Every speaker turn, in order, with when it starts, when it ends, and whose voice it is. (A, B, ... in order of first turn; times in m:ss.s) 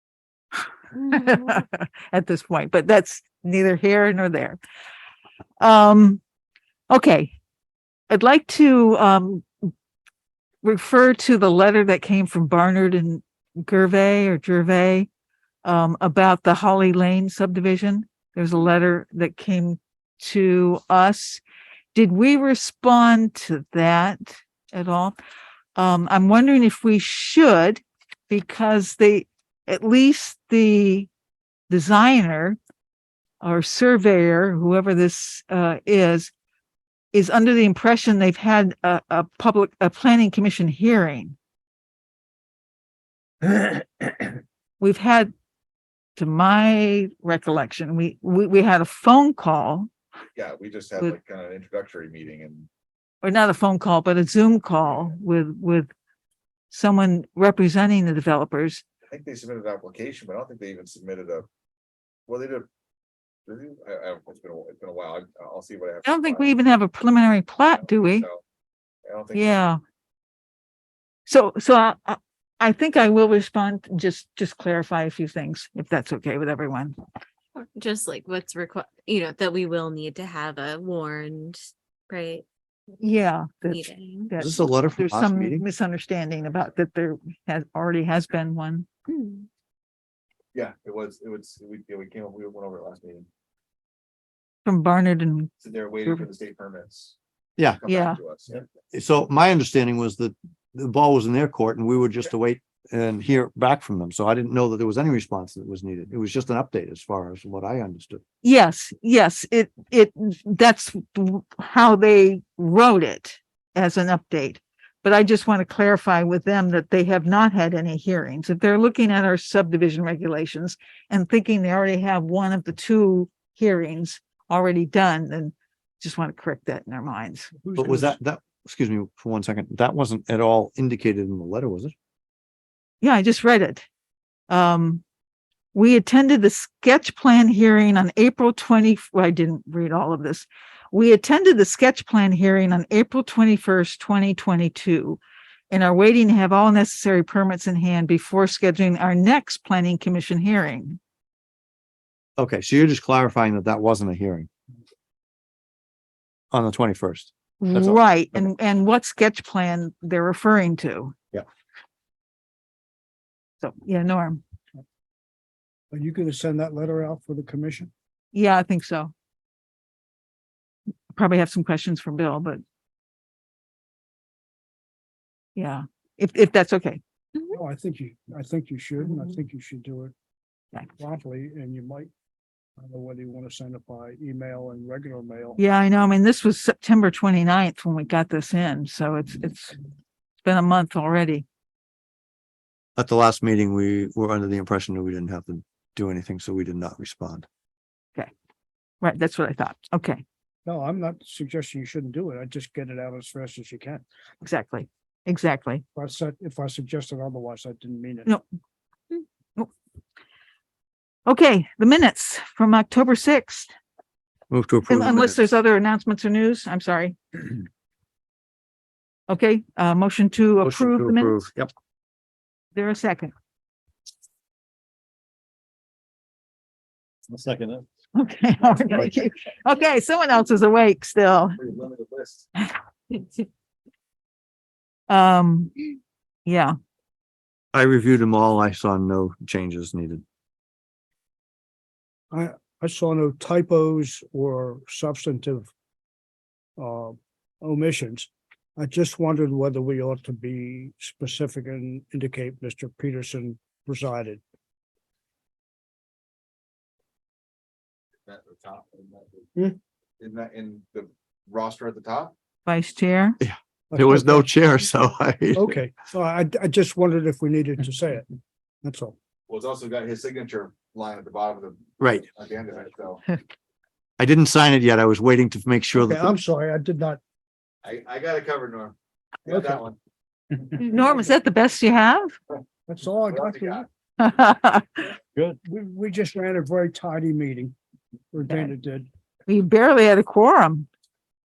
0:01.0-0:04.6 A
0:05.6-0:06.2 A
0:06.9-0:07.3 A
0:08.1-0:09.5 A
0:10.6-0:15.1 A
0:15.6-0:21.4 A
0:21.9-0:25.2 A
0:25.8-0:31.1 A
0:31.7-0:32.6 A
0:33.4-0:36.3 A
0:37.1-0:41.4 A
0:44.8-0:45.3 A
0:46.2-0:49.9 A
0:50.4-0:52.7 B
0:53.2-0:55.9 A
0:54.9-0:55.2 B
0:56.7-0:58.8 A
0:59.1-1:01.5 B
1:02.3-1:02.7 B
1:03.5-1:06.6 B
1:06.0-1:08.3 A
1:07.8-1:08.4 B
1:09.0-1:09.7 B
1:09.4-1:09.8 A
1:11.3-1:17.0 A
1:17.6-1:22.4 C
1:23.0-1:28.9 A
1:23.7-1:24.3 C
1:24.4-1:25.6 D
1:29.1-1:29.5 C
1:30.5-1:33.3 B
1:34.6-1:35.5 A
1:35.6-1:37.2 B
1:37.8-1:38.7 B
1:37.9-1:38.2 A
1:38.8-1:48.2 D
1:48.4-2:07.5 A
2:07.8-2:11.9 D
2:13.0-2:13.8 A
2:14.5-2:15.0 A
2:15.7-2:31.0 A
2:32.4-2:34.5 D
2:36.5-2:38.0 D
2:37.6-2:41.1 A
2:43.6-2:44.4 A
2:45.9-2:47.9 E
2:48.3-2:49.1 A
2:51.1-2:52.6 A
2:55.6-2:57.0 A
2:57.6-3:00.1 E
3:01.0-3:02.1 E
3:02.8-3:05.6 E
3:05.6-3:09.8 A
3:10.4-3:11.4 A
3:13.0-3:17.5 D
3:19.0-3:20.2 A
3:20.7-3:24.0 E
3:24.4-3:25.8 A
3:26.0-3:28.3 E
3:29.1-3:29.7 A
3:31.3-3:33.7 A
3:34.5-3:35.5 D
3:34.9-3:37.4 A
3:39.3-3:41.4 A
3:40.6-3:41.7 D
3:42.8-3:43.3 A
3:47.3-3:47.8 D
3:48.2-3:51.6 A
3:51.6-3:52.5 B
3:55.1-3:55.9 A
3:56.5-3:56.8 A
3:57.7-4:00.2 D
4:02.3-4:05.7 E
4:06.8-4:14.4 E
4:18.3-4:19.5 B
4:20.2-4:22.3 B
4:22.7-4:23.4 A
4:23.4-4:25.8 D
4:23.9-4:24.5 E
4:25.6-4:28.3 E
4:28.8-4:29.2 E
4:29.5-4:33.2 B
4:32.0-4:32.3 D
4:34.2-4:36.3 D
4:36.0-4:37.2 E
4:37.8-4:39.0 B
4:39.5-4:40.0 B
4:40.8-4:42.3 A
4:42.9-4:43.8 E
4:43.3-4:43.8 B
4:44.2-4:45.1 A
4:45.6-4:47.8 E
4:48.3-4:49.1 E
4:48.5-4:48.7 A
4:49.5-4:50.9 A